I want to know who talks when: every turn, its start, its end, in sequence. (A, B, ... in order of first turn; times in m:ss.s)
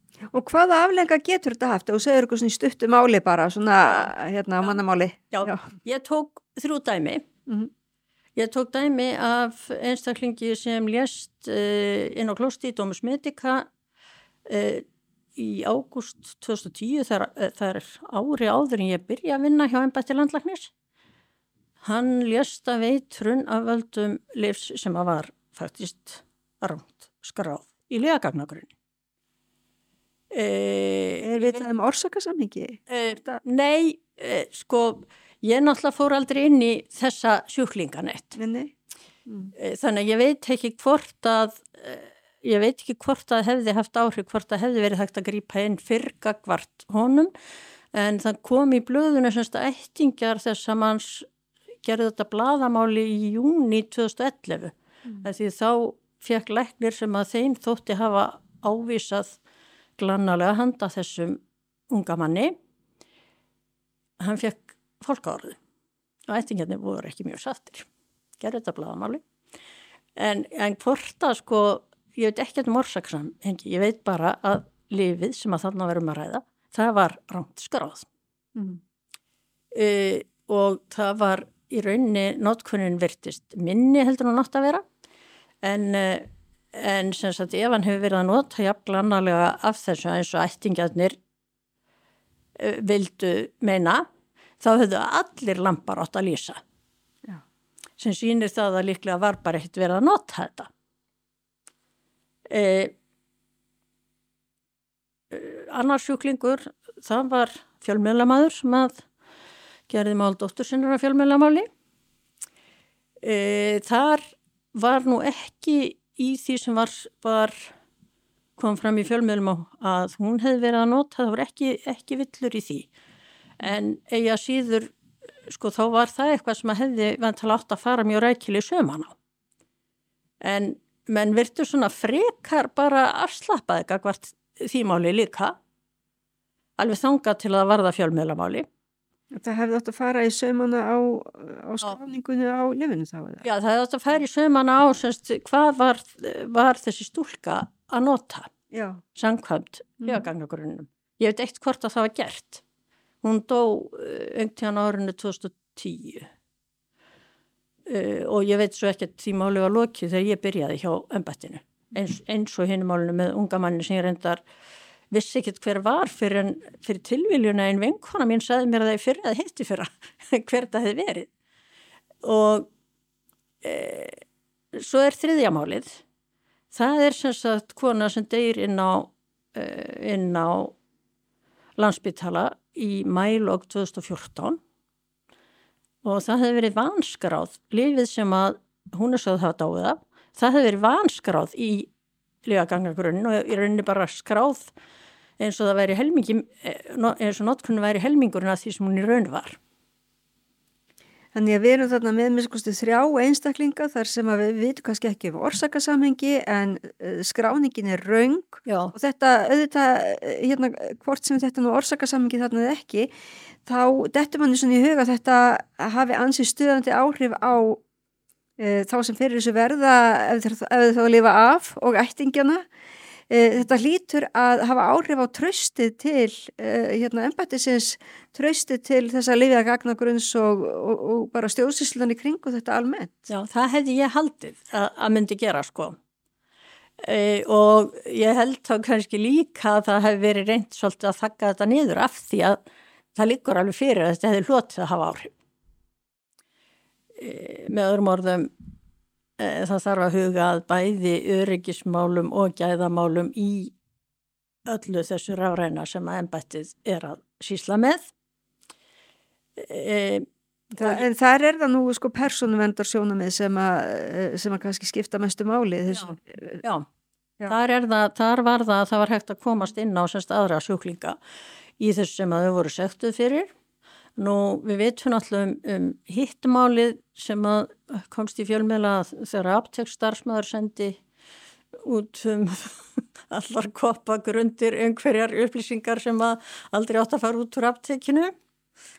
0:00.3-0:05.6 A
0:05.3-0:07.2 B
0:08.4-0:13.7 B
0:14.5-0:14.8 B
0:15.4-0:20.7 B
0:21.8-0:28.7 B
0:30.3-0:31.6 B
0:31.2-0:33.4 A
0:32.9-0:38.4 B
0:38.4-0:38.7 A
0:39.3-0:39.5 A
0:39.6-0:47.3 B
0:47.9-0:51.3 B
0:51.8-0:59.4 B
1:00.0-1:02.6 B
1:04.2-1:05.6 B
1:06.3-1:07.9 B
1:08.4-1:09.2 B
1:10.2-1:18.1 B
1:18.6-1:18.8 A
1:19.7-1:24.8 B
1:25.6-1:31.2 B
1:32.6-1:34.0 B
1:34.6-1:36.6 B
1:38.0-1:40.7 B
1:42.5-1:42.9 B
1:45.3-1:49.1 B
1:49.9-1:51.7 B
1:53.2-1:57.7 B
1:58.6-2:02.9 B
2:03.6-2:04.9 B
2:05.5-2:09.2 B
2:10.4-2:15.6 B
2:16.8-2:18.7 B
2:19.3-2:23.5 A
2:23.4-2:28.5 B
2:28.7-2:29.0 A
2:29.1-2:32.6 B
2:30.0-2:30.3 A
2:33.2-2:36.3 B
2:37.9-2:44.4 B
2:45.1-2:51.3 B
2:52.2-2:52.7 B
2:53.6-2:54.2 B
2:54.8-2:56.0 B
2:56.7-3:00.8 B
3:01.8-3:04.6 B
3:06.0-3:11.9 B
3:12.4-3:14.7 B
3:15.4-3:19.6 B
3:21.3-3:33.1 A
3:28.7-3:29.0 B
3:33.6-3:37.8 A
3:38.6-3:42.7 A
3:43.3-3:53.3 A
3:53.3-3:56.0 B
3:57.0-4:02.6 B
4:03.1-4:05.3 B
4:07.2-4:08.5 B
4:09.4-4:13.7 B
4:14.7-4:18.1 B
4:19.6-4:20.3 B
4:20.8-4:26.6 A
4:20.8-4:21.0 B
4:25.9-4:26.9 B
4:27.5-4:31.2 B
4:31.8-4:33.5 B
4:34.2-4:41.0 B
4:41.7-4:48.3 B